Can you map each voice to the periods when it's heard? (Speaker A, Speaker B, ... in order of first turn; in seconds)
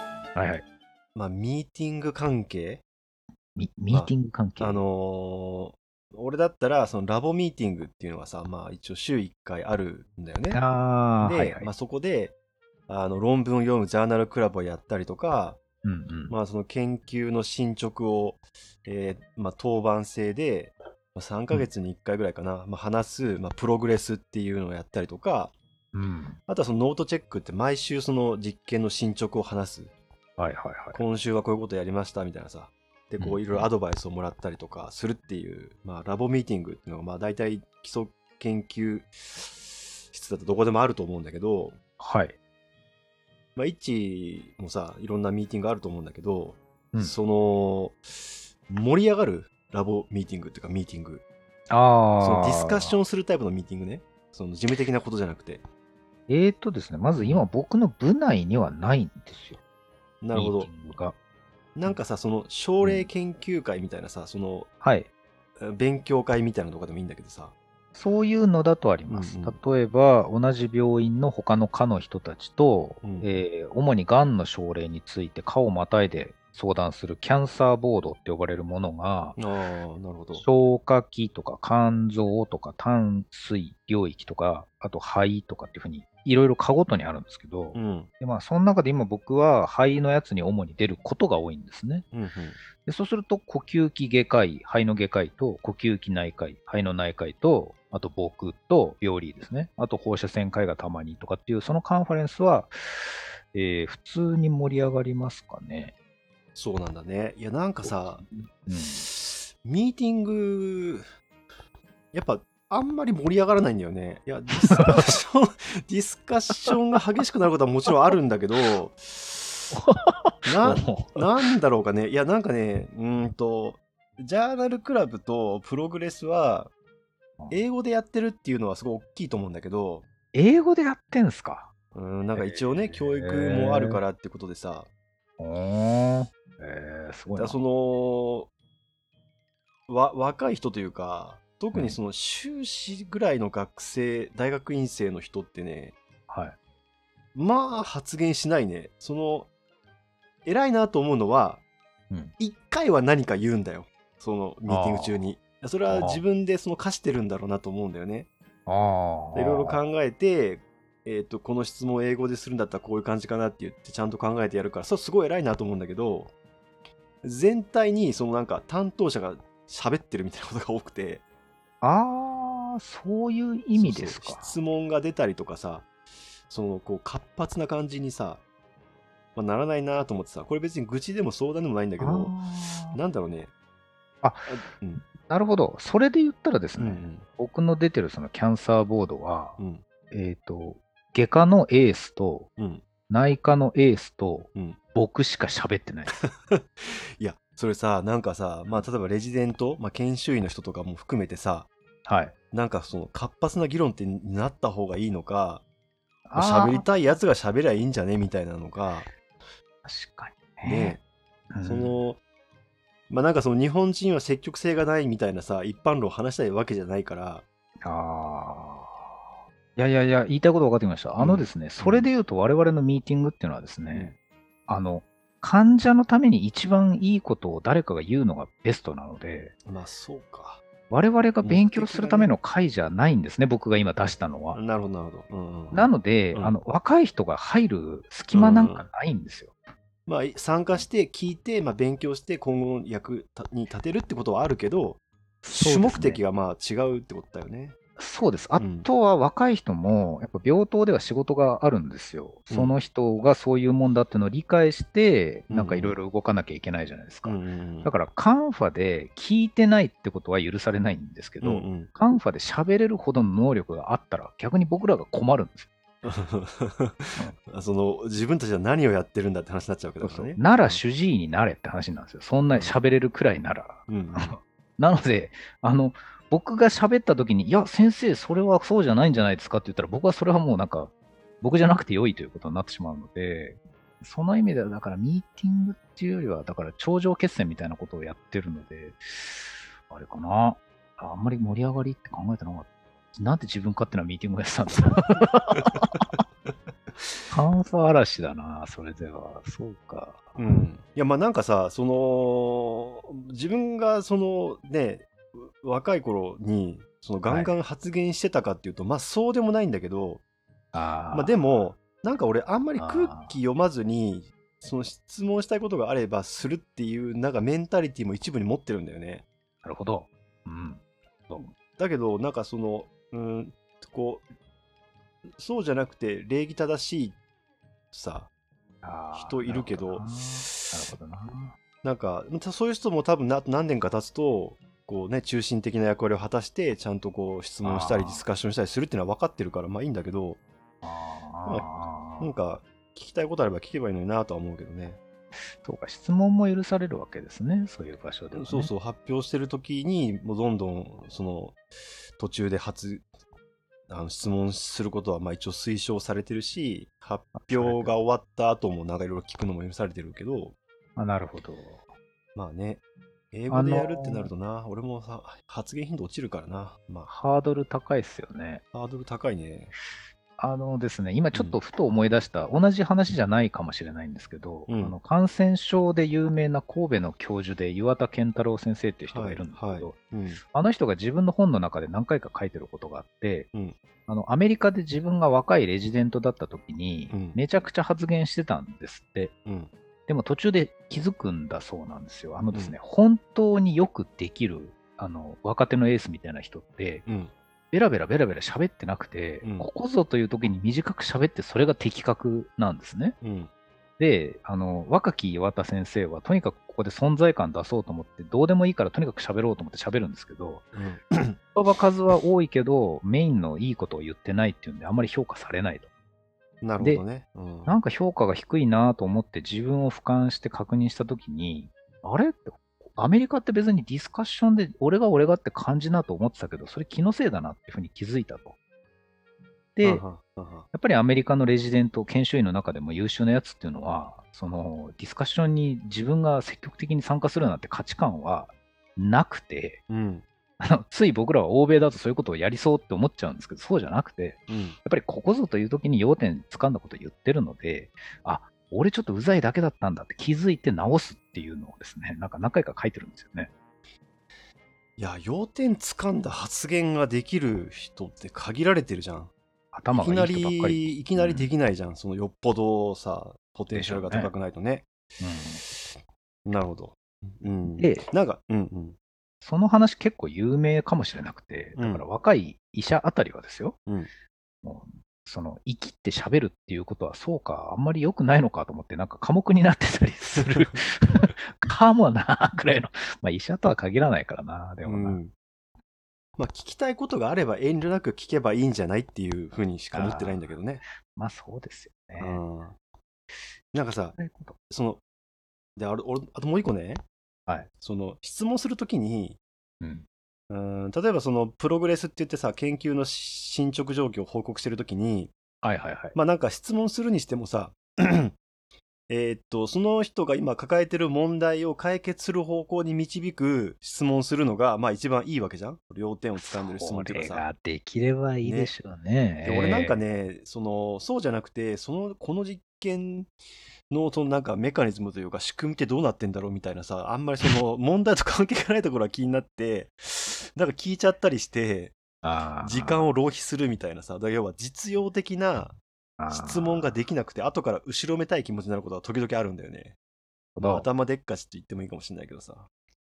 Speaker A: 0.3-0.6, 3.5-4.8, 10.5-11.7, 15.8-16.4, 25.9-26.4, 30.4-31.0, 33.2-33.7, 42.0-42.4, 51.7-52.9, 56.3-59.6, 60.3-61.1, 62.8-63.1, 64.8-65.1, 67.9-79.4, 80.3-92.1, 92.8-105.9, 107.8-109.0, 114.7-115.1, 119.7-121.5, 130.3-131.7, 132.3-134.0, 135.4-137.6, 146.3-146.5, 154.7-155.2, 155.9-156.2, 158.7-159.8, 171.8-174.6, 182.0-183.0, 184.2-189.6, 190.1-192.5, 193.1-196.2, 202.1-202.3, 206.3-206.9, 209.8-211.0, 211.5-211.9, 217.8-219.2, 219.8-224.1, 224.7-229.5, 230.9-234.6, 235.7-239.5, 245.4-246.2, 248.0-265.7, 270.0-296.1, 297.3-300.6, 307.2-307.5, 310.7-311.4, 312.8-313.4, 319.6-321.5, 328.8-331.5, 337.6-338.2, 340.8-342.3, 345.6-348.7, 357.4-357.9, 360.9-361.8, 363.5-364.3, 367.1-368.6, 370.4-379.9, 380.5-383.5, 384.1-389.3, 390.1-397.1, 397.7-403.2, 404.0-410.6, 411.5-415.9, 417.6-428.6, 429.8-430.0, 430.7-439.8, 440.6-453.5, 459.7-461.5, 463.7-464.3, 465.2-465.6, 467.8-468.1, 469.4-473.8, 474.6-485.2, 489.9-492.4, 494.2-494.6, 499.8-500.1, 505.6-506.1, 516.4-520.0, 532.2-533.1, 536.2-536.9, 540.5-540.9
Speaker B: 1.1-2.8, 3.9-10.6, 11.2-12.3, 12.9-15.6, 16.3-25.5, 26.5-29.9, 30.9-41.8, 43.5-51.2, 52.2-55.6, 57.2-57.4, 60.2-60.7, 61.7-64.7, 65.6-67.5, 69.1-69.6, 73.0-73.3, 79.4-80.4, 87.7-88.1, 92.1-92.6, 106.5-108.2, 108.9-111.0, 112.1-119.7, 120.5-126.7, 127.5-130.0, 131.9-134.9, 137.4-138.5, 139.9-145.9, 147.3-149.5, 150.4-151.6, 152.4-158.3, 159.3-166.3, 167.2-171.2, 173.7-175.9, 176.5-178.4, 179.3-182.3, 182.9-183.5, 184.5-185.1, 186.8-187.2, 189.6-189.8, 192.6-192.8, 196.1-201.7, 202.5-205.6, 206.3-209.1, 210.6-211.0, 211.6-212.2, 213.1-217.4, 221.2-222.1, 223.9-224.2, 229.7-230.6, 231.4-232.3, 234.5-236.5, 238.3-238.8, 240.1-247.7, 248.6-248.9, 252.5-252.8, 255.5-255.9, 257.2-257.9, 261.4-261.9, 266.0-270.8, 273.9-274.4, 295.5-296.0, 300.4-310.2, 311.1-319.2, 321.8-324.2, 325.4-327.2, 327.9-328.3, 329.1-330.8, 331.8-340.4, 341.4-345.0, 348.3-351.6, 352.2-353.1, 353.9-360.6, 362.4-362.8, 363.3-367.1, 368.7-369.7, 371.3-371.6, 374.7-375.0, 379.1-380.4, 387.1-387.4, 389.4-389.7, 397.1-397.3, 399.4-399.7, 403.2-403.5, 410.7-411.4, 416.6-417.7, 429.8-430.6, 439.9-440.2, 444.5-444.8, 455.0-459.3, 459.9-464.9, 465.7-465.9, 466.4-469.0, 471.8-472.1, 480.4-480.7, 484.9-485.3, 486.4-490.8, 492.2-492.8, 493.7-494.2, 494.7-495.0, 495.8-497.0, 497.8-499.4, 500.5-505.3, 506.1-508.4, 509.1-517.5, 518.4-518.7, 519.4-523.3, 523.9-532.0, 532.6-535.8, 536.3-540.0, 540.6-542.7